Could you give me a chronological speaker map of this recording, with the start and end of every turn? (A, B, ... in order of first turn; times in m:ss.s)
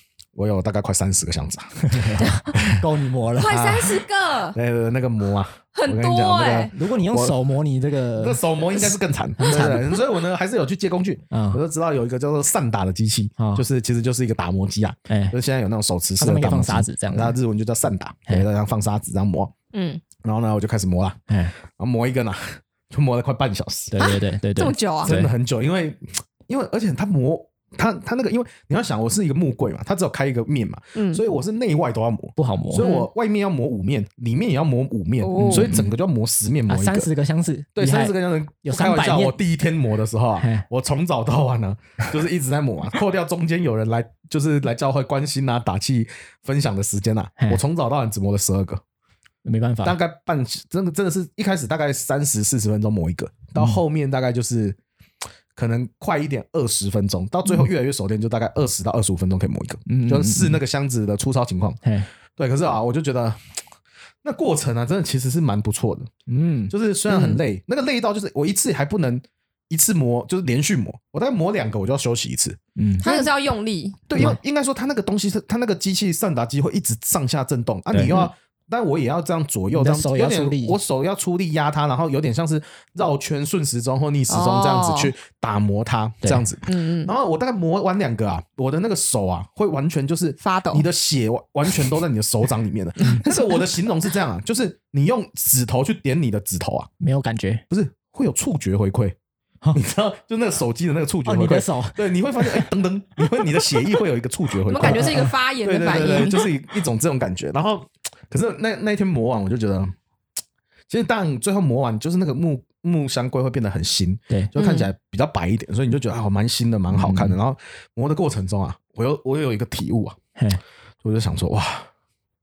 0:00.4-0:02.8 A
0:01.9-0:03.9 B
0:02.2-0:02.5 C
0:03.4-0:04.6 C
0:03.5-0:04.0 A
0:04.6-0:07.4 A
0:05.7-0:06.7 C
0:06.7-0:10.0 B
0:08.2-0:19.5 A
0:11.3-0:11.6 B
0:13.4-0:13.6 B
0:15.1-0:15.4 B
0:16.2-0:17.4 B
0:19.7-0:20.0 C
0:20.2-0:21.2 A
0:21.3-0:21.6 B
0:21.7-0:24.0 A
0:23.9-0:25.3 B
0:24.0-0:25.1 C
0:25.0-0:37.1 A
0:31.0-0:31.2 C
0:32.4-0:32.9 B
0:32.8-0:33.1 C
0:35.2-0:35.8 C
0:35.4-0:35.9 B
0:36.7-0:39.4 B
0:37.8-0:48.8 A
0:40.4-0:40.7 B
0:49.4-0:50.0 B
0:49.8-0:54.8 A
0:53.6-0:53.8 B
0:55.6-1:01.8 A
0:59.9-1:00.6 B
1:01.8-1:02.1 B
1:02.4-1:03.4 A
1:04.2-1:06.1 A
1:06.3-1:06.7 B
1:06.7-1:13.2 A
1:07.1-1:07.4 C
1:12.8-1:13.1 B
1:13.0-1:14.1 C
1:14.1-1:36.9 A
1:14.2-1:14.4 B
1:17.9-1:18.2 B
1:18.1-1:18.3 C
1:19.7-1:20.8 B
1:24.3-1:25.1 C
1:26.7-1:27.1 C
1:30.4-1:30.8 C
1:33.2-1:33.5 C
1:37.0-1:37.6 B
1:37.7-1:39.2 A
1:39.7-1:49.9 A
1:41.3-1:42.7 B
1:44.7-1:46.5 C
1:44.8-1:45.3 B
1:50.9-2:00.2 A
1:54.6-1:54.9 C
1:56.9-1:57.4 B
2:00.4-2:00.6 B
2:01.0-2:01.9 A